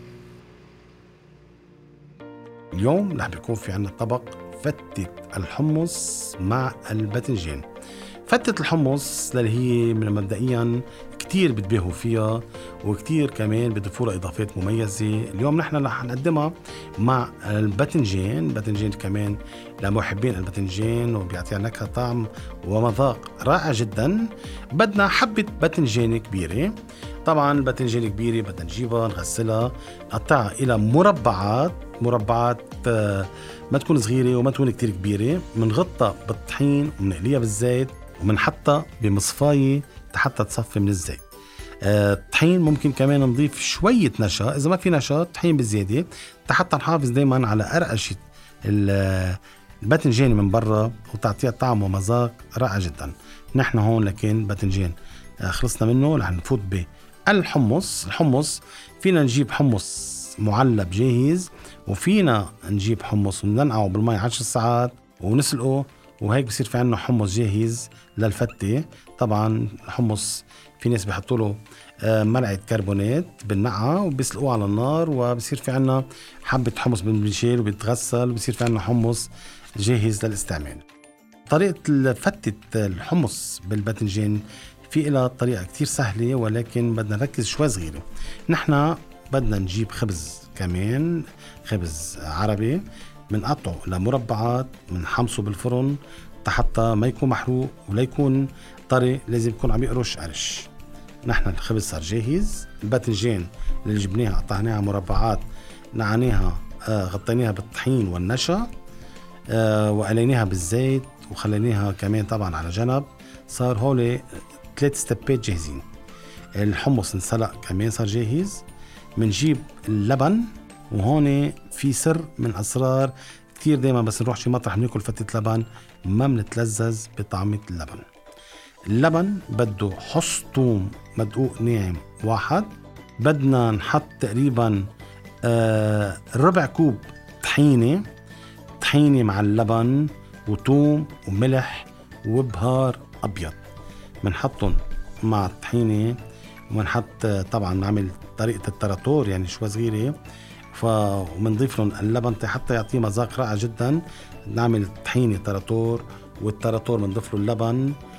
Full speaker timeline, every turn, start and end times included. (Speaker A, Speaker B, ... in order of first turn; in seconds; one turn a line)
Speaker A: 2.7-7.6
Speaker A: 8.3-41.2
Speaker A: 41.8-80.8
Speaker A: 81.5-100.7
Speaker A: 101.2-105.4
Speaker A: 106.0-108.7
Speaker A: 109.5-115.8
Speaker A: 116.6-118.6
Speaker A: 119.2-128.1
Speaker A: 128.9-134.8
Speaker A: 135.4-138.1
Speaker A: 138.8-143.6
Speaker A: 144.2-146.2
Speaker A: 146.7-150.2
Speaker A: 150.7-158.0